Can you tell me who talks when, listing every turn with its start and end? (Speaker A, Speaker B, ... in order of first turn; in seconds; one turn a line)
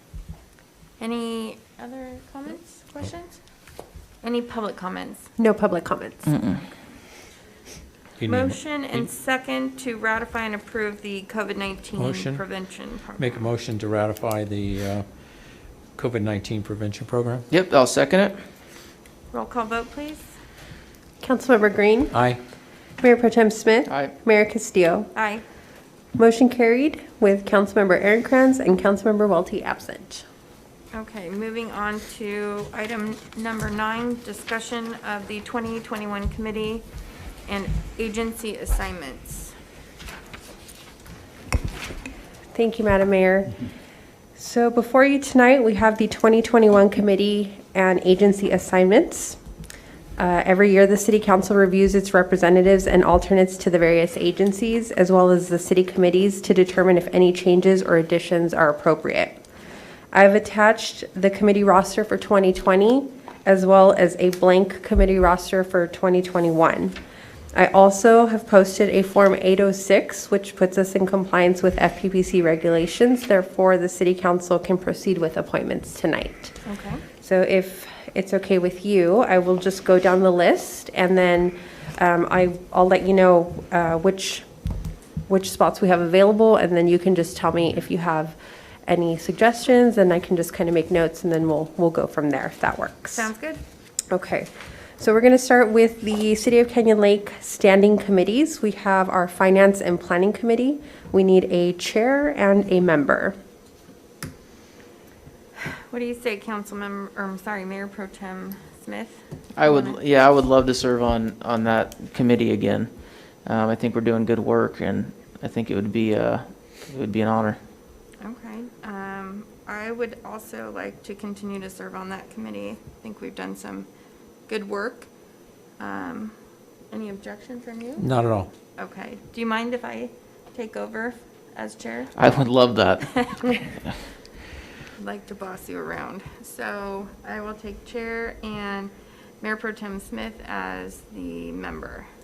Speaker A: 1.0-3.4
Speaker A: 4.2-5.3
Speaker B: 5.4-6.3
Speaker C: 6.3-6.6
Speaker D: 8.2-9.1
Speaker A: 8.3-13.4
Speaker D: 12.0-12.4
Speaker D: 13.2-17.5
Speaker C: 17.5-18.4
Speaker A: 19.3-20.3
Speaker B: 21.2-22.1
Speaker D: 22.1-22.4
Speaker B: 23.0-25.1
Speaker C: 23.9-24.1
Speaker A: 25.1-25.4
Speaker B: 26.2-30.2
Speaker A: 30.9-36.9
Speaker A: 37.5-39.5
Speaker B: 42.5-43.6
Speaker B: 44.4-49.4
Speaker B: 50.2-59.4
Speaker B: 60.1-67.0
Speaker B: 67.5-76.5
Speaker A: 76.7-77.0
Speaker B: 77.2-84.5
Speaker B: 85.3-93.3
Speaker A: 93.1-93.6
Speaker B: 94.1-103.3
Speaker A: 105.6-110.0
Speaker C: 109.5-117.6
Speaker A: 118.2-123.9
Speaker A: 124.5-125.1
Speaker A: 125.8-126.3
Speaker A: 126.9-128.1
Speaker D: 128.0-128.5
Speaker A: 128.8-132.2
Speaker C: 132.2-133.9
Speaker A: 133.1-133.3
Speaker A: 135.0-142.1